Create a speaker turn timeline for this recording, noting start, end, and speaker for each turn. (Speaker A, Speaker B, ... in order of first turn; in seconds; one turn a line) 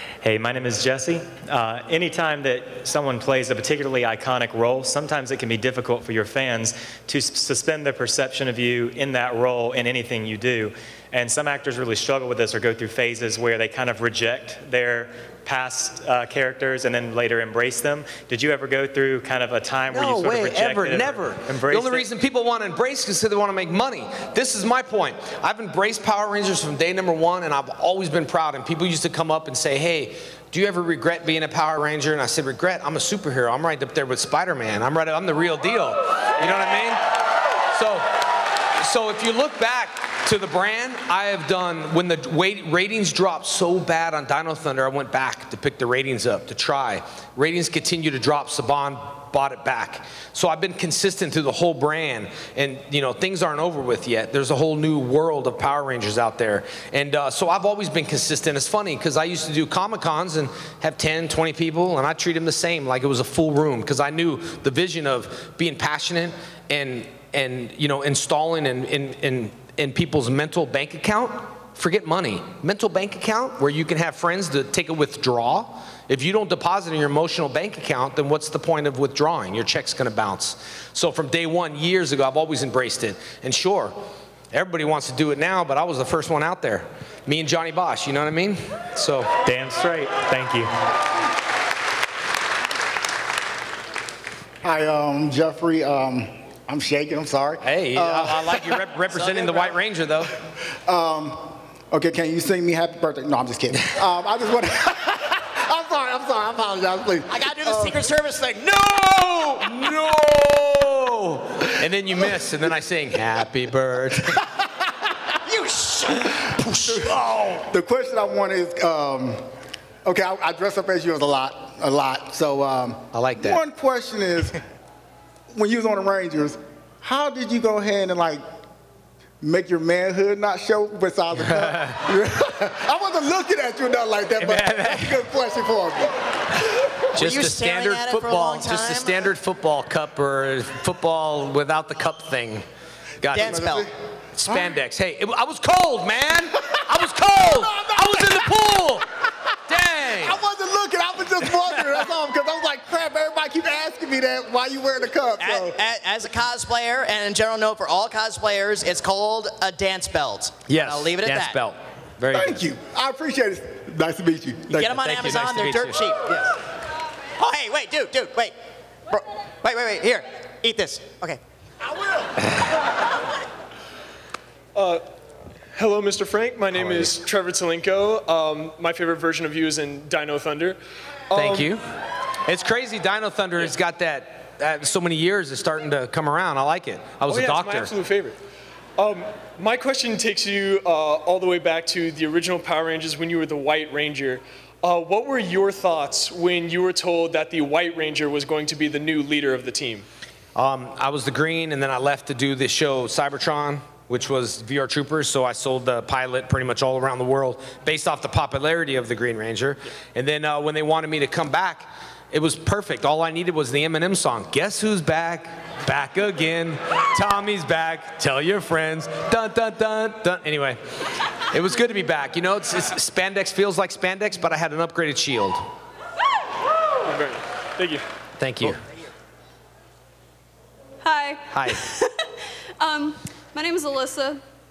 Speaker A: 0.2-22.1
Speaker B: 19.9-37.0
Speaker B: 37.7-38.1
Speaker B: 38.8-84.0
Speaker B: 84.5-89.3
Speaker A: 89.4-90.7
Speaker C: 94.6-98.9
Speaker B: 97.6-100.3
Speaker C: 100.9-108.0
Speaker D: 107.3-109.1
Speaker B: 109.0-114.4
Speaker D: 115.5-117.1
Speaker C: 116.9-119.4
Speaker C: 120.0-124.6
Speaker B: 123.1-123.6
Speaker C: 125.5-128.4
Speaker C: 129.4-136.1
Speaker B: 131.4-132.0
Speaker B: 134.4-135.2
Speaker D: 137.1-139.2
Speaker B: 137.1-142.6
Speaker B: 143.2-143.8
Speaker D: 143.3-143.9
Speaker C: 143.4-143.9
Speaker B: 144.4-149.1
Speaker C: 147.5-148.5
Speaker B: 149.7-150.4
Speaker C: 150.1-155.8
Speaker D: 155.4-161.6
Speaker B: 160.7-162.6
Speaker C: 162.3-165.0
Speaker D: 164.7-166.5
Speaker B: 164.9-166.0
Speaker D: 167.4-168.5
Speaker D: 169.1-171.4
Speaker E: 174.8-175.1
Speaker E: 175.8-181.7
Speaker B: 181.3-181.8
Speaker B: 182.4-187.9
Speaker E: 187.2-188.4
Speaker E: 189.0-200.1
Speaker B: 200.6-220.8
Speaker B: 221.4-225.6
Speaker E: 226.9-228.0
Speaker B: 228.4-228.8
Speaker F: 231.0-234.4
Speaker B: 231.5-231.8